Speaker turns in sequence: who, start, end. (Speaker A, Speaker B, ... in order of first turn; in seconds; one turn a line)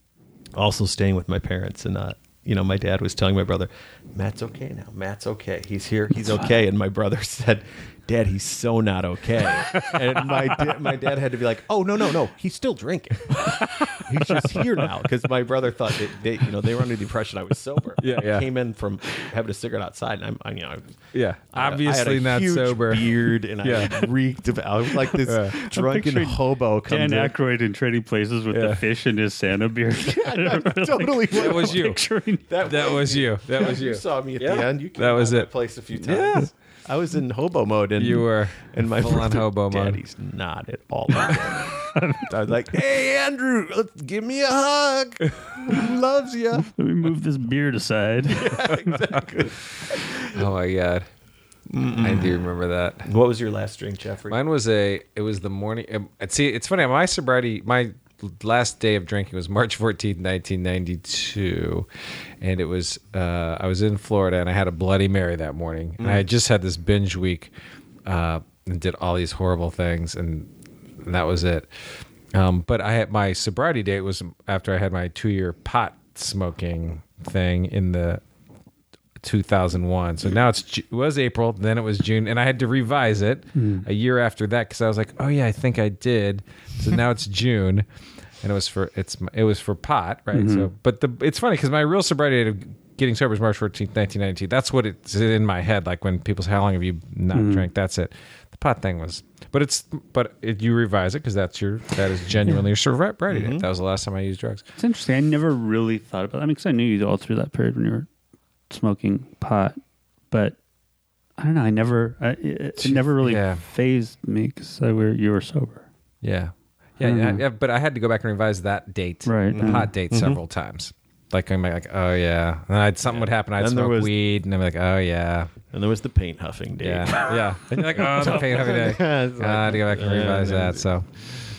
Speaker A: 0.6-20.9
Speaker B: 9.6-11.0
Speaker B: 13.3-14.9
Speaker B: 18.0-18.5
Speaker B: 21.1-24.1
Speaker A: 21.5-27.3
Speaker B: 25.2-25.5
Speaker C: 25.5-32.5
Speaker B: 28.5-28.8
Speaker A: 30.1-31.9
Speaker B: 31.3-32.0
Speaker A: 32.5-46.7
Speaker B: 32.6-36.5
Speaker B: 38.0-40.0
Speaker C: 41.9-42.3
Speaker C: 46.7-49.0
Speaker A: 48.3-50.4
Speaker B: 50.3-51.1
Speaker A: 51.7-52.4
Speaker B: 51.9-53.1
Speaker A: 53.0-54.4
Speaker B: 54.3-61.9
Speaker B: 62.4-67.5
Speaker A: 66.0-66.2
Speaker B: 68.1-70.5
Speaker B: 71.0-78.2
Speaker B: 79.2-87.9
Speaker C: 83.5-83.9
Speaker B: 88.4-104.6
Speaker C: 90.3-90.7
Speaker C: 97.3-97.7
Speaker A: 103.3-103.7
Speaker C: 104.8-108.1
Speaker C: 108.7-109.8
Speaker C: 110.3-110.6
Speaker C: 111.4-115.9
Speaker B: 113.2-113.6
Speaker B: 116.2-125.5
Speaker C: 117.0-117.4
Speaker C: 119.3-119.9
Speaker A: 119.5-120.4
Speaker A: 123.1-124.1
Speaker A: 125.7-130.9
Speaker B: 126.8-131.1